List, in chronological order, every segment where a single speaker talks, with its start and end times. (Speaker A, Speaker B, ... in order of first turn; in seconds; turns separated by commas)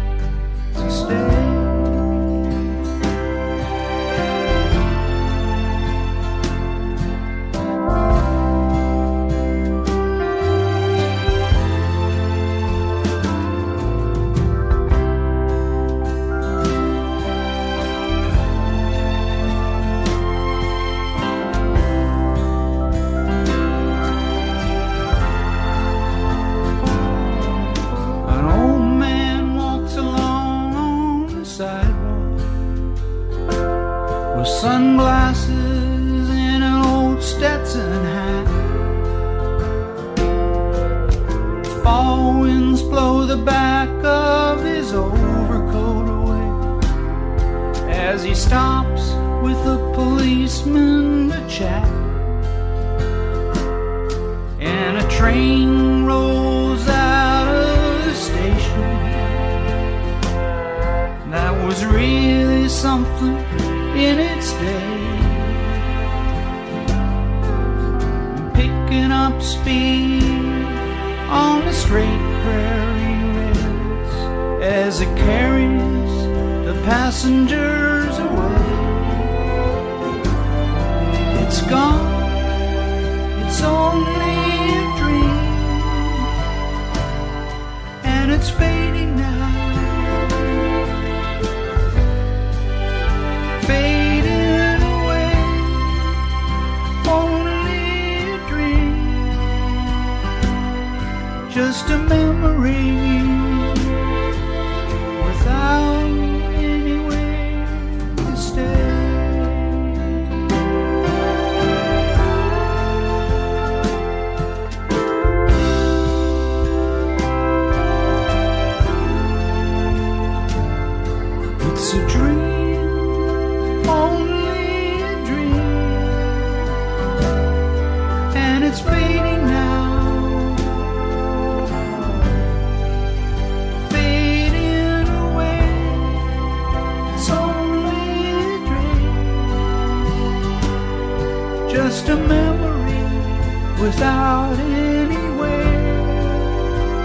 Speaker A: 0.7-2.2, Speaker A: 28.2-32.5, Speaker A: 34.3-38.8, Speaker A: 41.6-46.7, Speaker A: 47.8-52.4, Speaker A: 54.6-59.6, Speaker A: 61.2-65.8, Speaker A: 68.3-79.4, Speaker A: 81.3-82.6, Speaker A: 83.3-86.3, Speaker A: 88.0-90.8, Speaker A: 93.6-96.0, Speaker A: 97.0-99.5, Speaker A: 101.5-104.0, Speaker A: 105.1-110.2, Speaker A: 121.6-126.6, Speaker A: 128.3-131.1, Speaker A: 133.8-136.3, Speaker A: 137.1-139.6, Speaker A: 141.7-146.5